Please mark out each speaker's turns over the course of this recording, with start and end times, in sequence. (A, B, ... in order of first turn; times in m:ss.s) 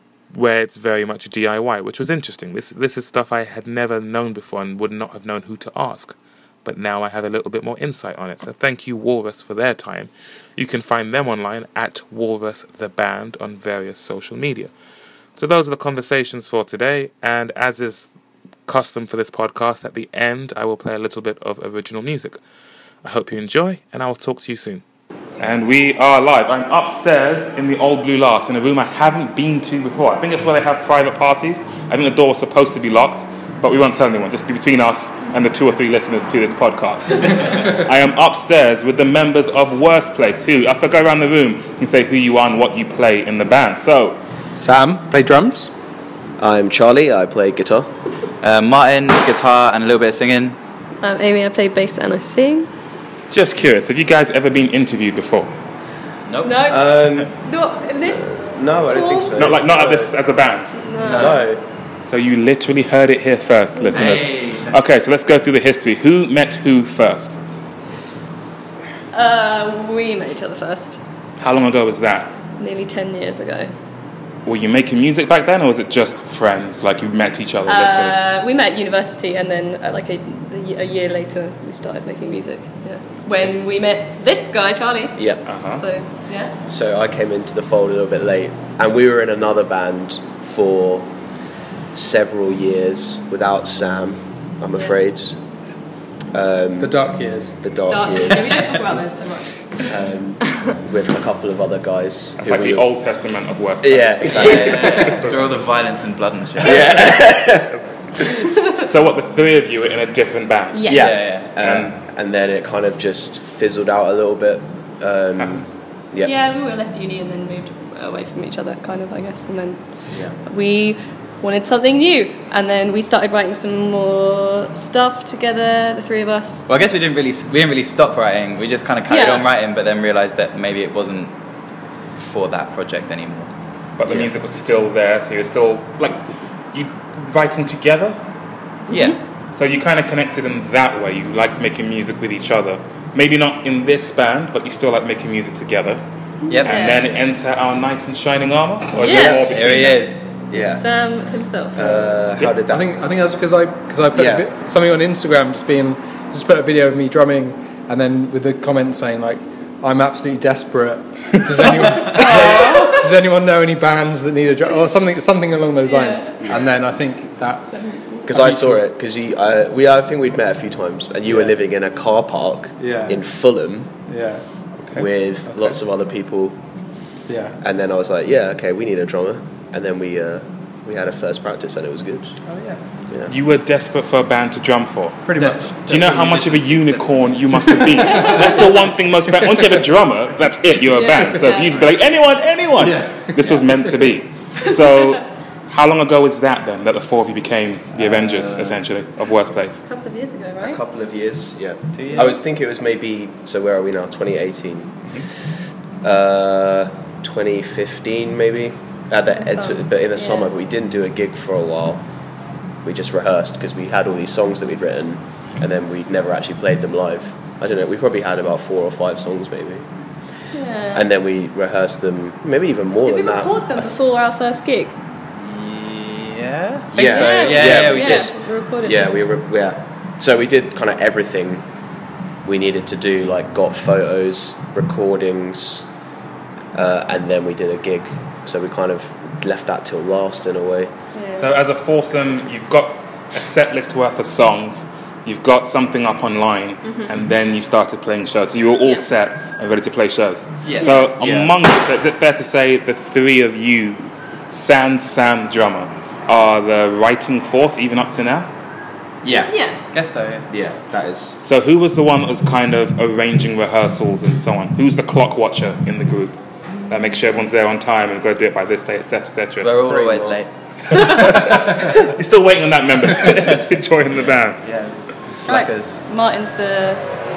0:00.3-0:14.7 A
0:15.4-0:18.2 A
0:18.7-0:22.4 A
0:23.0-0:24.8 A
0:25.4-0:44.2 A
0:44.6-0:45.7 B
0:46.4-0:47.9 C
0:48.4-0:50.6 D
0:51.0-0:52.7 E
0:53.3-0:55.5 A
0:56.3-0:56.6 D
0:56.4-0:59.4 E
0:56.7-0:57.3 C
0:58.0-1:00.1 C
0:59.4-1:00.7 A
1:00.8-1:01.5 E
1:01.0-1:01.4 D
1:01.0-1:01.6 C
1:02.0-1:07.4 A
1:03.9-1:04.8 D
1:09.1-1:11.0 E
1:11.4-1:12.3 A
1:12.6-1:13.7 E
1:14.4-1:18.2 A
1:17.7-1:26.5 E
1:25.2-1:25.4 C
1:25.5-1:25.8 A
1:26.7-1:31.1 C
1:31.9-1:35.4 C
1:36.3-1:37.0 C
1:36.8-1:37.6 B
1:37.6-1:38.8 C
1:37.9-1:40.0 E
1:39.9-1:42.9 C
1:42.4-1:45.3 A
1:43.8-1:45.1 C
1:44.2-1:47.1 D
1:46.6-1:48.4 C
1:48.7-1:51.9 A
1:50.7-1:51.5 E
1:50.9-1:56.3 C
1:51.0-1:51.5 D
1:55.4-1:55.7 A
1:56.2-1:59.9 E
2:00.4-2:06.6 E
2:06.7-2:11.3 D
2:09.1-2:09.5 E
2:12.2-2:13.5 D
2:14.0-2:18.2 A
2:14.0-2:14.3 D
2:18.9-2:19.2 E
2:18.9-2:19.2 D
2:19.5-2:26.0 A
2:26.5-2:27.1 E
2:26.5-2:27.0 D
2:26.6-2:30.0 A
2:29.0-2:29.7 E
2:29.0-2:30.2 D
2:30.5-2:30.8 C
2:30.5-2:32.0 E
2:31.7-2:33.0 C
2:32.7-2:48.8 B
2:34.1-2:34.5 C
2:41.8-2:43.1 E
2:45.9-2:46.5 E
2:47.7-2:48.2 E
2:48.3-2:53.9 C
2:52.9-2:53.2 B
2:54.1-2:54.4 B
2:54.9-2:56.6 C
2:57.6-3:02.4 C
3:02.5-3:02.8 B
3:03.3-3:05.2 A
3:05.2-3:06.0 B
3:05.4-3:07.4 D
3:05.9-3:19.8 A
3:07.6-3:08.2 B
3:08.0-3:08.7 E
3:10.9-3:11.8 E
3:12.8-3:13.3 B
3:17.9-3:18.8 C
3:19.8-3:20.8 E
3:20.6-3:25.5 C
3:22.0-3:22.4 D
3:26.0-3:32.0 C
3:29.3-3:30.5 E
3:32.8-3:39.9 C
3:40.5-3:41.1 E
3:40.9-3:43.9 C
3:43.0-3:45.0 E
3:45.4-3:48.3 D
3:46.9-3:51.7 C
3:47.0-3:49.2 E
3:52.4-3:55.9 C
3:56.7-4:00.9 C
4:01.2-4:01.5 E
4:01.4-4:18.5 A
4:06.8-4:07.1 E
4:10.6-4:11.0 D
4:10.8-4:11.1 E
4:11.2-4:11.5 C
4:19.2-4:19.5 C
4:19.5-4:19.8 E
4:19.9-4:20.5 D
4:20.5-4:21.4 C
4:21.4-4:26.4 A
4:26.9-4:29.7 A
4:29.6-4:30.5 D
4:29.8-4:30.4 C
4:30.9-4:34.6 A
4:30.9-4:31.8 E
4:34.1-4:36.0 D
4:35.4-4:37.0 E